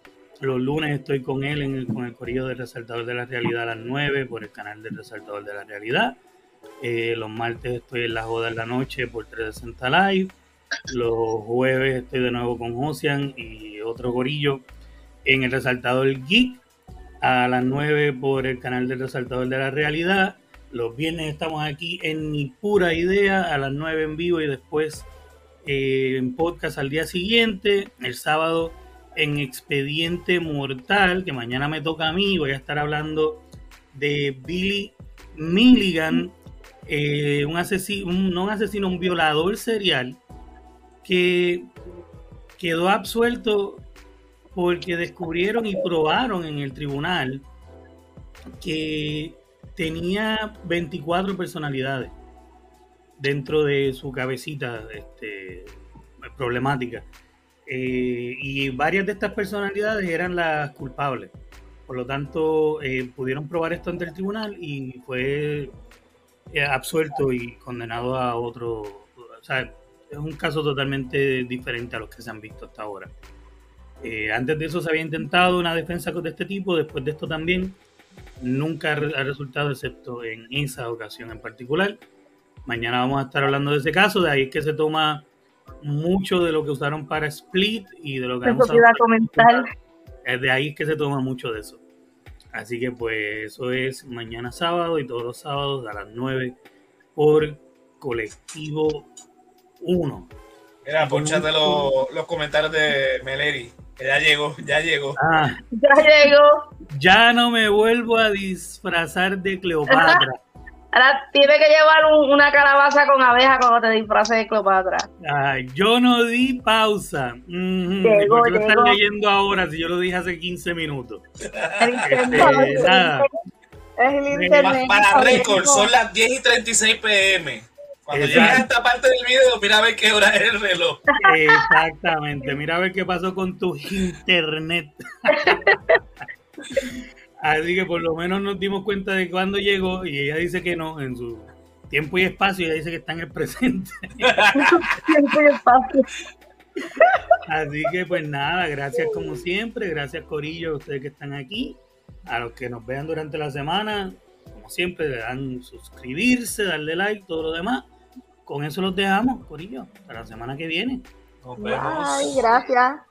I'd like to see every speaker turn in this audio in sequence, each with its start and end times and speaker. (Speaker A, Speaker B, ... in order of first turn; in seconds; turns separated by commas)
Speaker A: 0.4-6.2, Speaker A: 6.8-10.3, Speaker A: 10.9-14.6, Speaker A: 15.3-16.6, Speaker A: 17.2-25.1, Speaker A: 25.6-33.4, Speaker A: 33.9-36.4, Speaker A: 36.9-40.2, Speaker A: 41.0-41.7, Speaker A: 42.6-43.8, Speaker A: 44.5-47.5, Speaker A: 48.6-52.1, Speaker A: 53.2-57.1, Speaker A: 57.7-61.3, Speaker A: 61.9-65.7, Speaker A: 66.5-73.1, Speaker A: 74.0-77.8, Speaker A: 78.4-82.0, Speaker A: 82.7-85.3, Speaker A: 85.8-89.7, Speaker B: 88.5-89.7, Speaker A: 90.2-91.8, Speaker A: 92.5-96.6, Speaker A: 97.2-99.1, Speaker A: 99.8-100.3, Speaker C: 100.8-105.2, Speaker A: 101.0-101.9, Speaker A: 105.2-105.6, Speaker B: 105.7-106.7, Speaker A: 106.9-110.4, Speaker B: 109.9-110.2, Speaker B: 110.9-115.1, Speaker A: 115.2-121.2, Speaker B: 118.0-119.0, Speaker C: 121.5-122.3, Speaker B: 121.8-123.3, Speaker A: 122.1-123.3, Speaker D: 122.3-123.0, Speaker D: 124.0-125.9, Speaker A: 124.3-124.8, Speaker C: 124.6-131.0, Speaker A: 128.1-128.7, Speaker B: 131.1-131.7, Speaker A: 131.2-135.7, Speaker B: 135.3-136.0, Speaker A: 137.4-144.8, Speaker C: 144.2-144.7, Speaker B: 144.6-146.1, Speaker A: 147.4-151.8, Speaker A: 152.3-157.9, Speaker A: 158.4-161.1, Speaker C: 161.4-162.7, Speaker D: 161.6-163.0